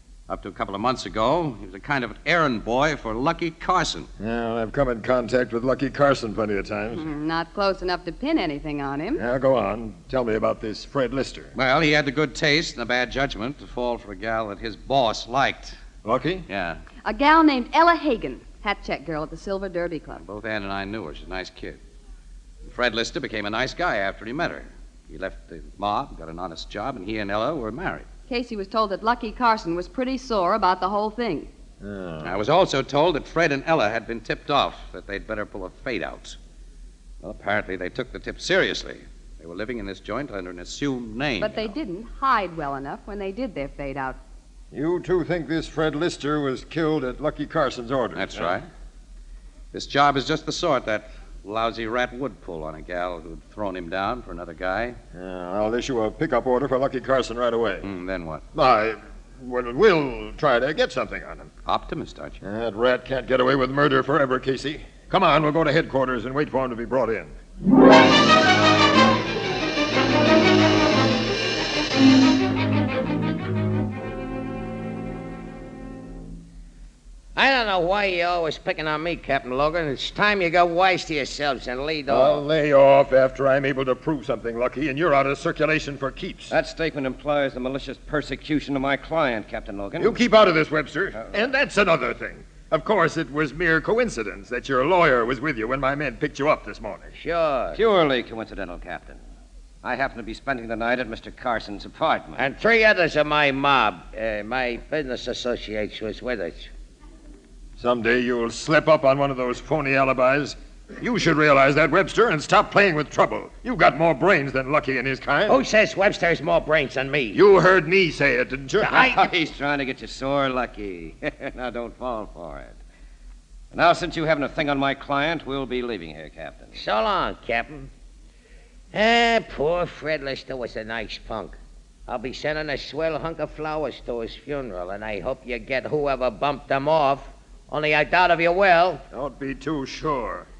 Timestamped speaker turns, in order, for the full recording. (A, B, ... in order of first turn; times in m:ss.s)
0:00.3-0:04.1 A
0:04.2-0:07.0 B
0:06.9-0:09.2 C
0:09.1-0:11.5 B
0:11.6-0:15.8 A
0:16.0-0:16.4 B
0:16.5-0:16.8 A
0:17.0-0:20.2 C
0:20.2-0:21.8 A
0:22.6-0:28.1 A
0:28.3-0:31.5 C
0:31.8-0:32.4 B
0:32.2-0:36.4 A
0:37.2-0:41.7 A
0:41.4-0:44.2 C
0:44.7-0:48.4 B
0:48.1-0:48.7 A
0:49.7-0:55.0 A
0:55.1-0:57.9 B
0:57.8-0:58.4 A
0:58.5-1:01.5 B
1:01.6-1:02.4 A
1:02.4-1:07.3 B
1:17.3-1:22.4 D
1:22.1-1:26.5 B
1:26.5-1:30.2 E
1:30.0-1:37.1 B
1:37.2-1:37.8 D
1:37.7-1:39.2 E
1:39.8-1:42.4 E
1:42.4-1:46.7 D
1:47.8-1:55.6 B
1:55.5-1:57.4 D
1:57.3-1:59.2 B
1:58.9-2:02.8 E
1:58.9-1:59.2 D
2:03.7-2:06.8 E
2:06.7-2:07.9 D
2:08.9-2:19.0 D
2:19.1-2:20.4 B